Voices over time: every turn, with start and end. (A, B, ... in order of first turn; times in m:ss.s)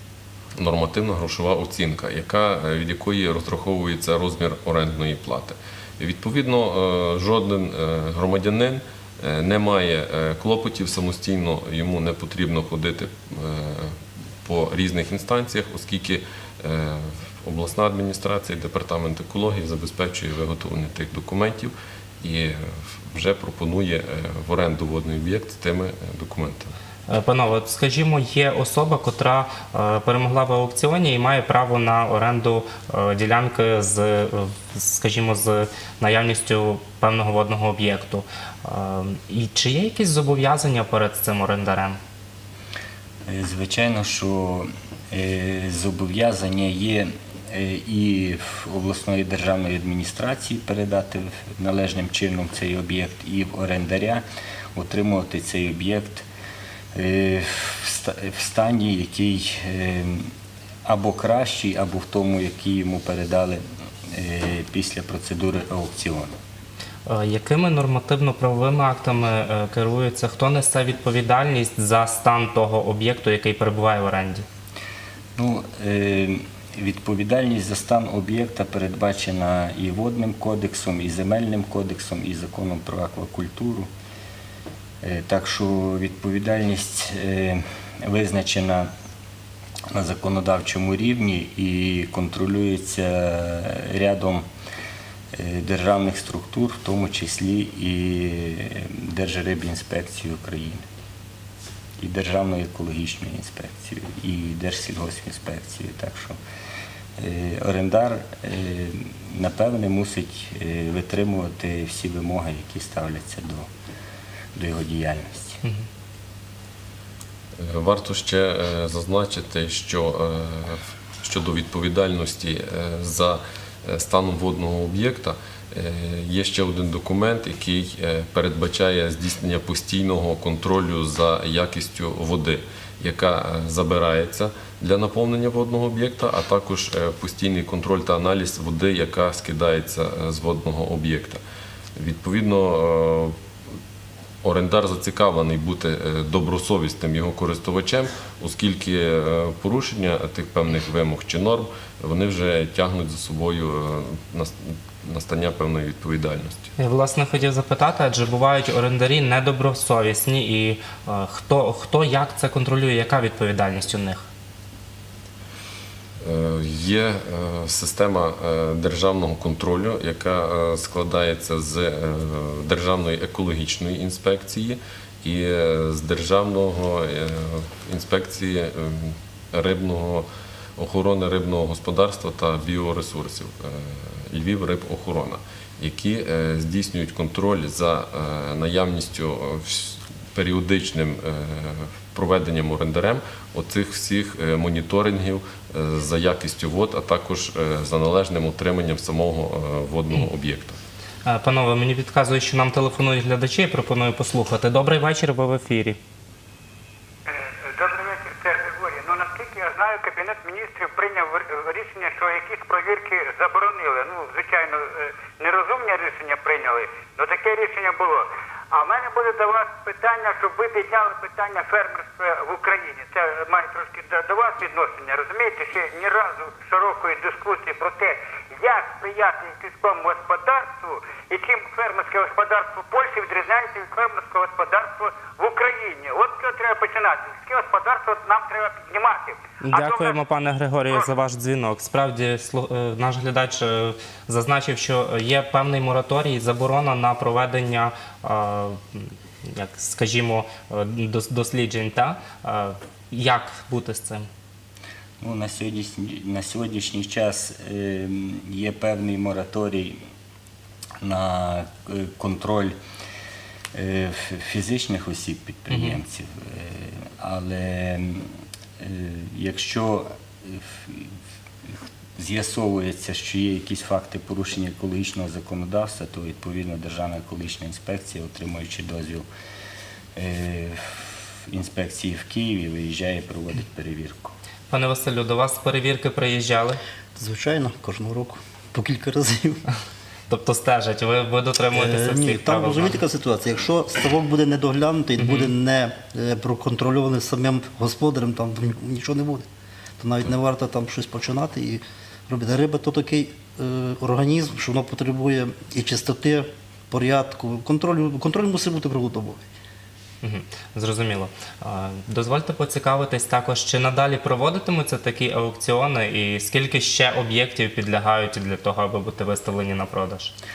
0:00.6-0:26.7 A
0:27.1-0:42.0 B
0:43.3-0:54.2 C
0:54.7-0:56.2 C
0:56.9-1:00.3 C
1:00.8-1:03.6 C
1:04.1-1:06.3 C
1:07.1-1:14.4 B
1:15.4-1:23.9 C
1:25.0-1:28.9 C
1:29.9-1:34.4 C
1:35.3-1:40.8 C
1:42.0-1:46.4 C
1:47.2-1:53.7 C
1:54.5-1:55.6 C
1:57.6-2:21.4 A
2:22.0-2:23.4 A
2:24.4-2:36.7 A
2:36.8-2:44.2 B
2:46.2-3:20.8 A
3:21.2-3:26.0 B
3:27.3-4:00.2 D
3:59.6-4:14.3 B
4:15.2-4:20.0 C
4:21.0-4:22.8 C
4:23.7-4:28.3 C
4:25.7-4:26.0 B
4:28.8-4:31.1 C
4:32.2-4:39.2 C
4:40.2-4:44.3 C
4:44.7-4:46.8 B
4:47.2-4:49.6 E
4:50.3-4:53.0 B
4:51.7-4:59.4 E
4:55.2-4:55.5 B
5:00.0-5:09.5 E
5:10.2-5:20.3 B